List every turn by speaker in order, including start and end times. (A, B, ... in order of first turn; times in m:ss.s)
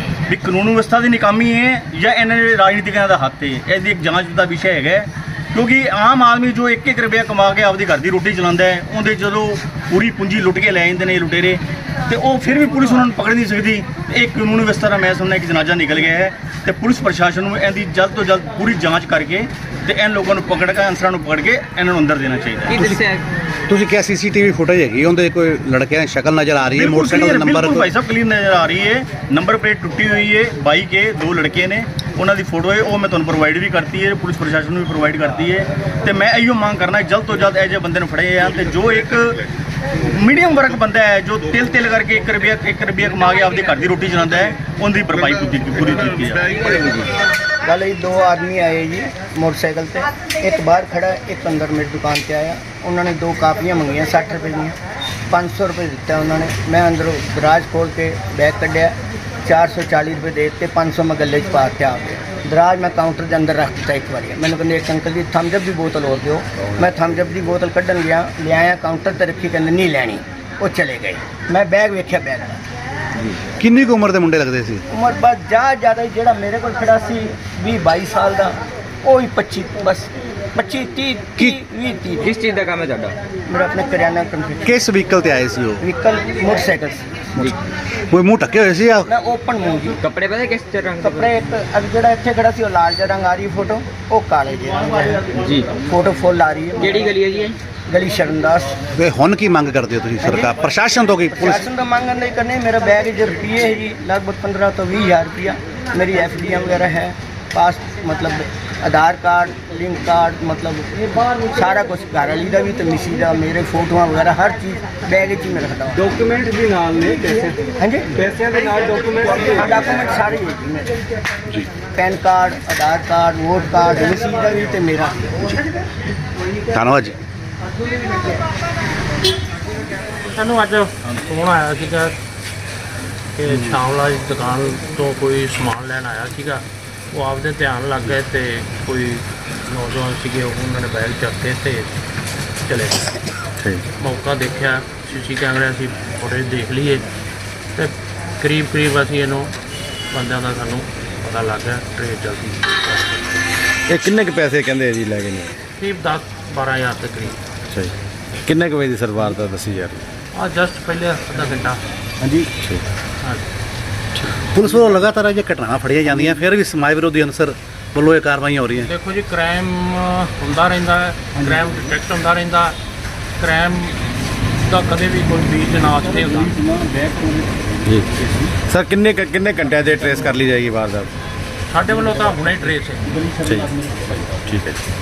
0:00.3-0:22.8 A
0:22.7-0:23.2 B
0:22.8-0:23.0 C
0:23.7-0:27.9 C
0:26.7-0:39.5 A
0:40.1-0:46.6 A
0:46.5-0:47.1 B
0:47.6-0:54.8 D
0:55.3-0:58.9 D
0:59.5-1:12.6 D
1:13.6-1:14.8 C
1:14.9-1:22.3 D
1:22.2-1:23.2 B
1:23.5-1:24.6 D
1:24.6-1:25.9 C
1:25.8-1:27.0 D
1:28.1-1:29.1 C
1:29.1-1:30.0 D
1:30.0-1:31.4 B
1:31.0-1:37.1 D
1:35.4-1:35.8 B
1:36.8-1:37.6 B
1:37.9-1:38.7 D
1:39.0-1:41.7 C
1:41.3-1:50.9 D
1:51.5-1:56.2 D
1:56.2-1:57.6 E
1:57.8-1:58.2 D
1:58.4-1:59.3 E
1:59.2-2:00.9 D
2:02.0-2:05.5 D
2:06.7-2:07.2 C
2:10.3-2:12.2 F
2:13.4-2:21.9 F
2:22.7-2:23.1 F
2:24.0-2:27.1 F
2:27.8-2:29.5 F
2:30.1-2:33.3 F
2:33.9-2:35.6 G
2:35.8-2:37.4 F
2:38.4-2:40.0 G
2:40.4-2:41.8 F
2:42.6-2:42.8 G
2:44.3-2:48.9 C
2:48.8-2:52.8 F
2:53.4-2:54.0 F
2:54.6-2:56.8 F
2:57.8-3:01.1 G
3:01.7-3:03.3 F
3:03.4-3:03.8 G
3:04.5-3:04.8 G